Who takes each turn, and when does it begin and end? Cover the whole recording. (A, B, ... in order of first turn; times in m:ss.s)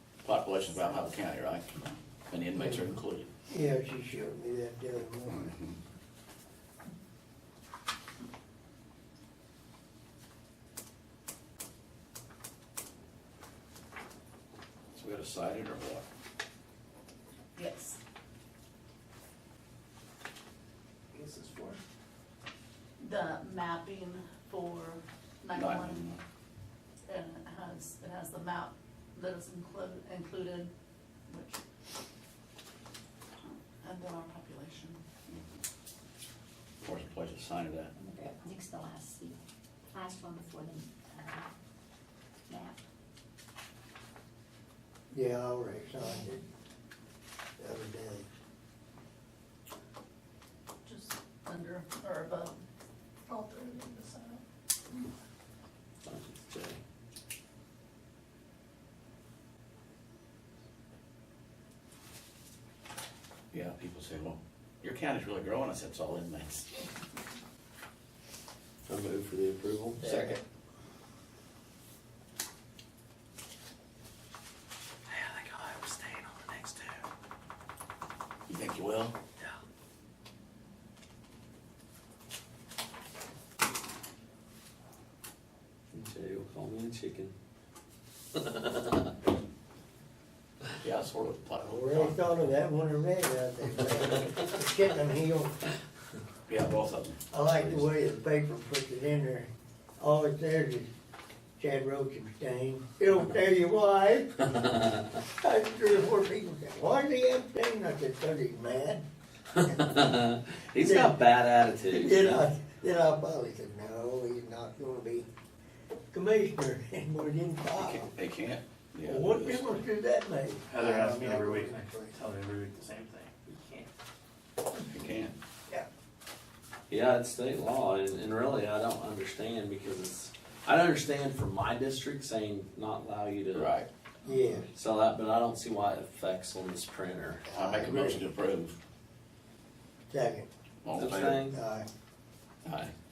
0:00.2-0:03.3 A
0:00.7-0:01.1 B
0:02.6-0:03.0 C
0:03.5-0:05.6 C
0:14.9-0:16.1 A
0:17.6-0:18.0 B
0:21.1-0:21.8 D
0:23.0-0:26.1 B
0:25.5-0:26.2 A
0:27.1-0:30.7 B
0:31.3-0:31.6 B
0:33.8-0:35.4 B
0:36.8-0:37.9 A
0:38.0-0:39.4 E
0:39.9-0:41.5 E
0:42.5-0:42.8 E
0:45.1-0:46.4 C
0:47.6-0:48.3 C
0:50.9-0:52.6 B
0:53.3-0:55.1 B
0:56.0-0:56.8 F
1:03.5-1:06.9 A
1:08.9-1:10.4 F
1:10.0-1:10.4 C
1:15.1-1:17.0 F
1:18.5-1:19.2 A
1:25.9-1:27.3 F
1:28.4-1:29.1 F
1:30.8-1:32.2 A
1:31.6-1:35.6 C
1:36.5-1:37.9 A
1:37.3-1:40.9 C
1:41.6-1:49.0 C
1:49.6-1:52.4 F
1:50.8-1:51.2 C
1:51.9-1:55.3 C
1:56.1-1:58.1 C
1:57.7-1:59.8 A
1:59.0-2:02.1 C
2:00.7-2:03.9 D
2:04.8-2:05.4 A
2:06.9-2:13.7 F
2:13.5-2:13.9 A
2:14.2-2:14.7 C
2:14.8-2:17.5 F
2:17.5-2:18.2 C
2:17.5-2:18.8 A
2:20.1-2:20.5 C
2:20.8-2:21.4 A
2:20.9-2:21.6 F
2:21.5-2:21.9 C
2:22.6-2:22.9 A